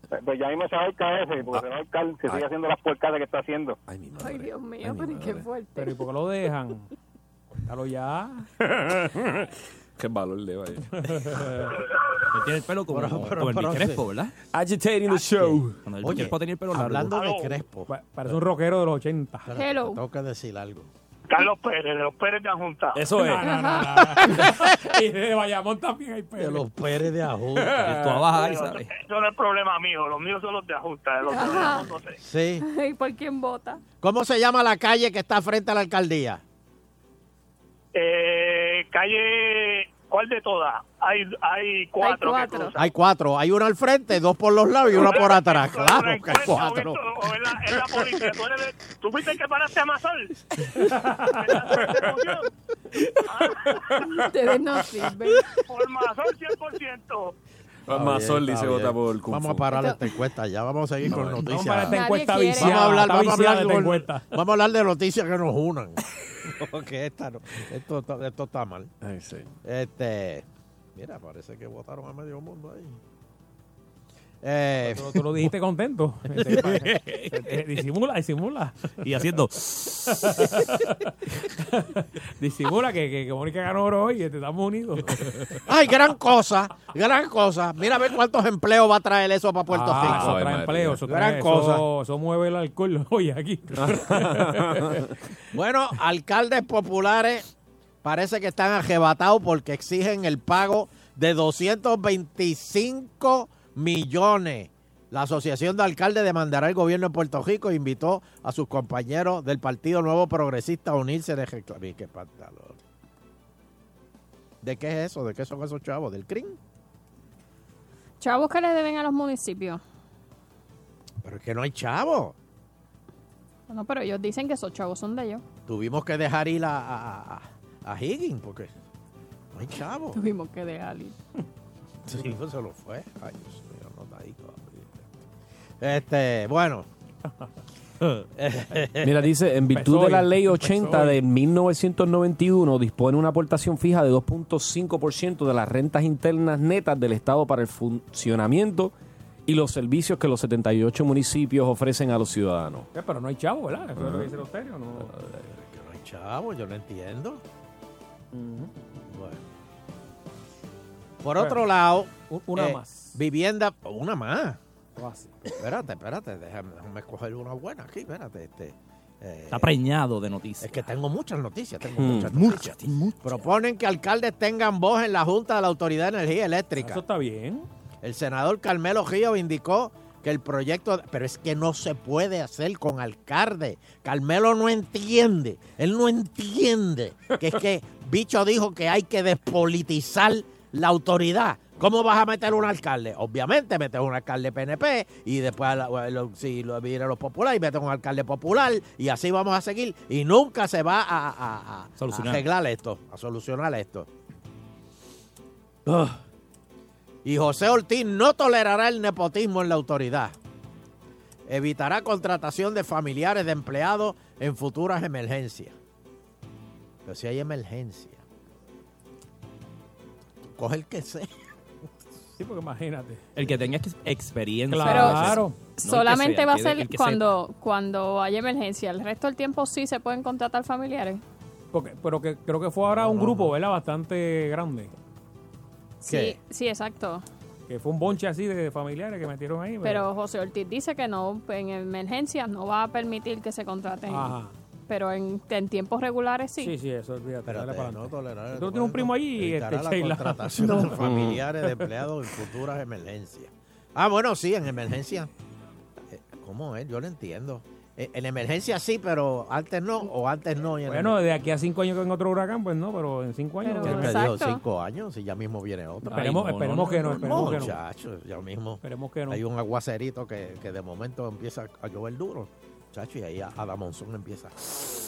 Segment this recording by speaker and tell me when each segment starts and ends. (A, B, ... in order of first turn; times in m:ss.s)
0:00.1-0:03.8 A
0:03.9-0:05.5 B
0:04.2-0:06.0 C
0:05.8-0:06.8 D
0:07.6-0:08.5 D
0:08.6-0:10.9 B
0:11.0-0:11.8 D
0:12.3-0:14.3 E
0:12.9-0:14.0 F
0:14.5-0:15.8 B
0:15.4-0:17.2 E
0:16.0-0:17.9 F
0:17.1-0:17.6 G
0:17.9-0:19.5 D
0:19.4-0:20.9 F
0:19.5-0:20.0 C
0:21.3-0:23.0 G
0:22.9-0:23.4 B
0:23.1-0:26.6 D
0:23.3-0:24.4 C
0:26.4-0:27.9 F
0:27.8-0:28.9 E
0:27.8-0:28.1 D
0:28.4-0:32.2 G
0:31.3-0:31.9 C
0:32.2-0:32.6 F
0:32.6-0:33.8 C
0:34.0-0:36.4 F
0:37.9-0:42.8 G
0:42.0-0:42.8 C
0:42.7-0:47.0 F
0:44.9-0:50.3 G
0:51.2-0:52.5 G
0:53.3-0:54.0 G
0:54.1-0:55.6 C
0:55.7-0:57.3 G
0:57.9-0:59.6 B
0:57.9-1:02.0 F
0:59.7-1:00.0 C
1:01.4-1:04.3 D
1:01.8-1:02.9 C
1:02.6-1:08.9 F
1:09.0-1:09.5 B
1:09.6-1:13.0 F
1:14.4-1:15.2 F
1:14.8-1:18.8 D
1:16.7-1:17.3 E
1:19.0-1:20.3 E
1:20.1-1:25.4 D
1:25.6-1:30.4 F
1:29.7-1:35.0 D
1:29.9-1:31.0 B
1:31.0-1:31.8 F
1:33.8-1:35.0 B
1:35.5-1:37.4 F
1:38.0-1:52.8 F
1:54.6-1:56.6 F
1:58.2-1:59.8 C
2:01.2-2:02.4 F
2:03.7-2:05.4 C
2:05.7-2:08.7 F
2:09.5-2:10.2 F
2:10.1-2:11.2 C
2:12.0-2:15.2 F
2:15.8-2:16.8 F
2:18.3-2:19.3 F
2:19.0-2:28.9 B
2:19.7-2:21.2 D
2:29.5-2:32.9 B
2:32.9-2:35.1 D
2:34.0-2:34.3 B
2:35.5-2:37.4 F
2:38.3-2:38.7 D
2:39.1-2:39.4 F
2:41.2-2:44.6 F
2:41.4-2:41.6 D
2:42.3-2:43.2 D
2:45.0-2:45.4 D
2:45.5-2:49.7 F
2:49.5-2:50.9 E
2:50.6-2:57.0 F
2:52.0-2:52.7 B
2:52.1-2:53.1 E
2:56.8-2:57.6 D
2:58.0-3:24.1 F
3:22.0-3:22.4 E
3:25.8-3:26.2 F
3:27.2-3:30.3 F
3:31.5-3:35.7 F
3:37.0-3:38.2 F
3:40.4-3:41.3 F
3:42.4-3:43.2 D
3:43.4-3:47.4 E
3:44.7-3:45.6 D
3:44.8-3:51.2 C
3:51.7-3:54.9 D
3:52.9-3:53.5 F
3:56.0-3:57.2 C
3:56.1-3:56.4 F
3:57.7-4:00.1 D
3:59.8-4:04.4 C
4:04.1-4:04.5 D
4:04.9-4:06.7 C
4:06.6-4:11.0 D
4:07.4-4:15.3 F
4:11.0-4:11.4 B
4:16.1-4:21.2 F
4:20.9-4:24.2 D
4:23.6-4:24.6 C
4:23.8-4:34.5 F
4:26.1-4:27.6 E
4:26.1-4:27.8 D
4:28.8-4:29.4 D